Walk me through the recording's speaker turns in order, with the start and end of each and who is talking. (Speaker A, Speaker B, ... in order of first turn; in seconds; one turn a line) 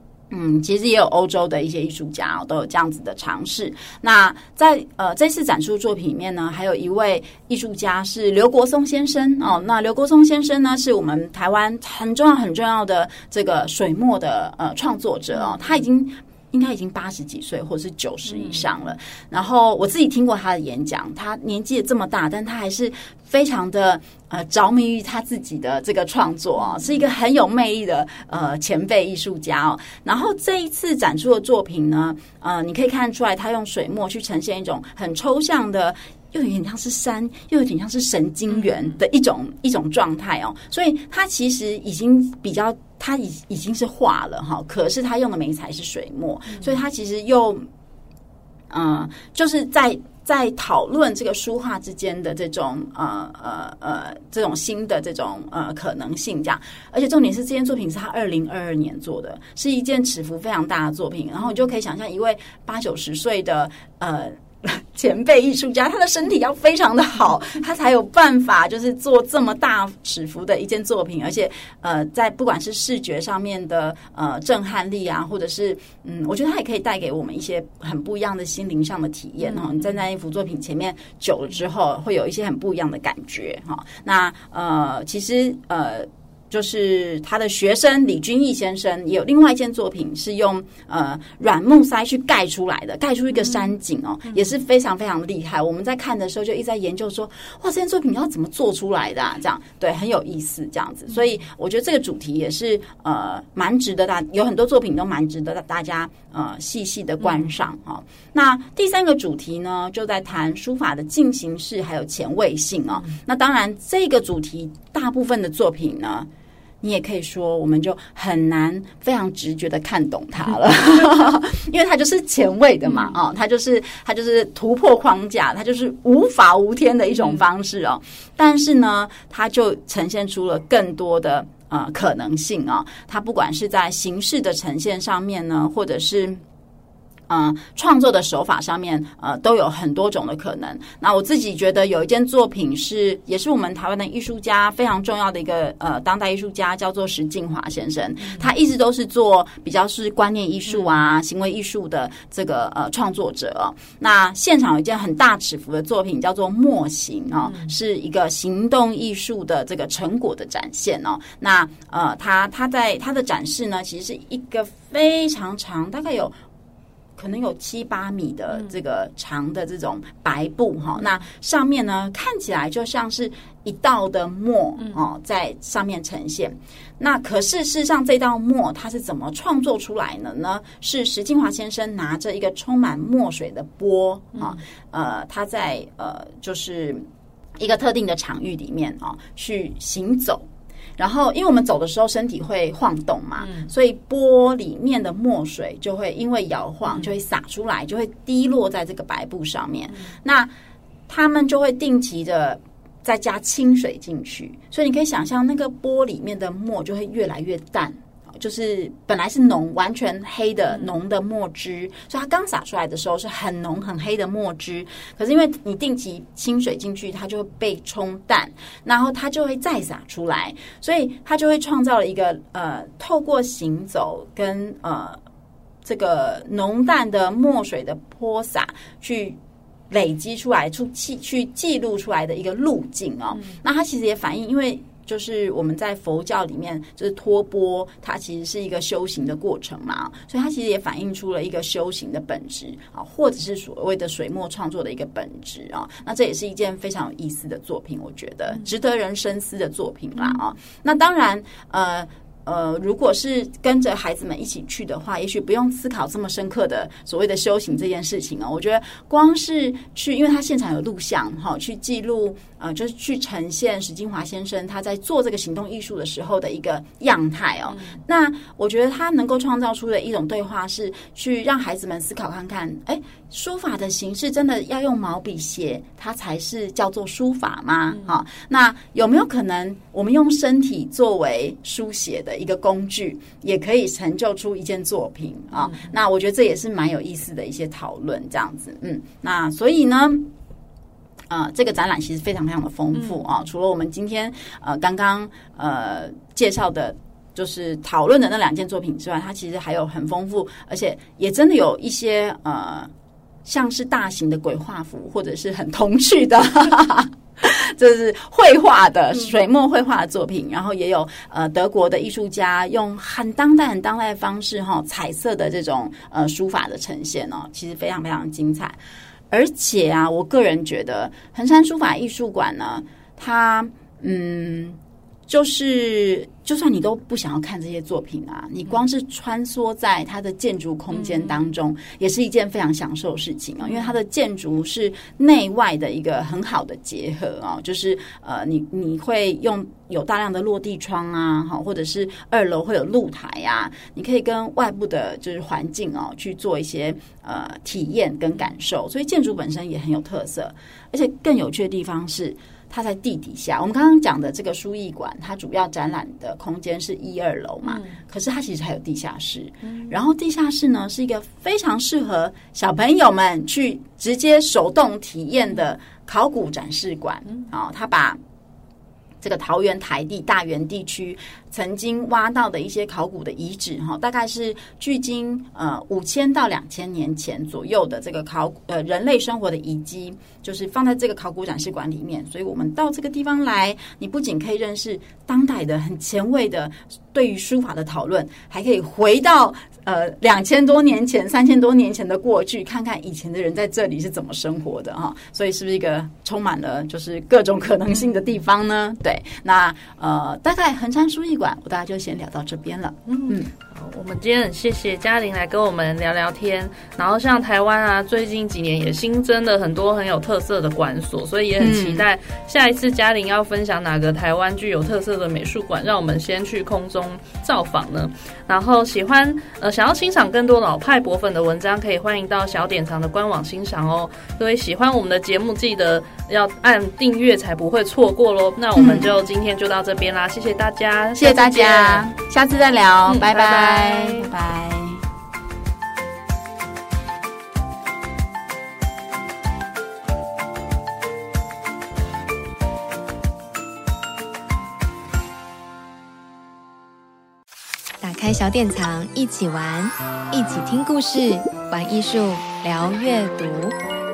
Speaker A: 0.3-47.6
Speaker B: 15.3-15.7
Speaker B: 18.3-18.6
Speaker B: 26.6-26.9
Speaker A: 48.7-116.3
Speaker B: 79.4-79.9
Speaker B: 93.4-93.7
Speaker A: 116.8-136.4
Speaker B: 122.9-123.1
Speaker A: 137.3-166.3
Speaker B: 150.7-150.9
Speaker B: 157.5-157.7
Speaker A: 167.2-187.0
Speaker A: 187.6-190.5
Speaker A: 191.0-200.5
Speaker B: 193.4-193.7
Speaker B: 199.9-200.2
Speaker A: 201.1-225.2
Speaker A: 225.8-229.4
Speaker A: 229.9-290.3
Speaker B: 267.7-268.0
Speaker B: 285.5-285.9
Speaker A: 291.3-302.9
Speaker B: 292.9-293.2
Speaker A: 303.4-318.8
Speaker A: 319.3-368.2
Speaker B: 330.9-331.3
Speaker B: 333.6-333.9
Speaker B: 357.6-358.0
Speaker B: 359.6-359.9
Speaker A: 369.2-403.5
Speaker B: 403.1-432.1
Speaker A: 411.6-412.1
Speaker A: 428.8-429.1
Speaker A: 431.2-435.0
Speaker B: 433.1-434.3
Speaker C: 448.0-453.8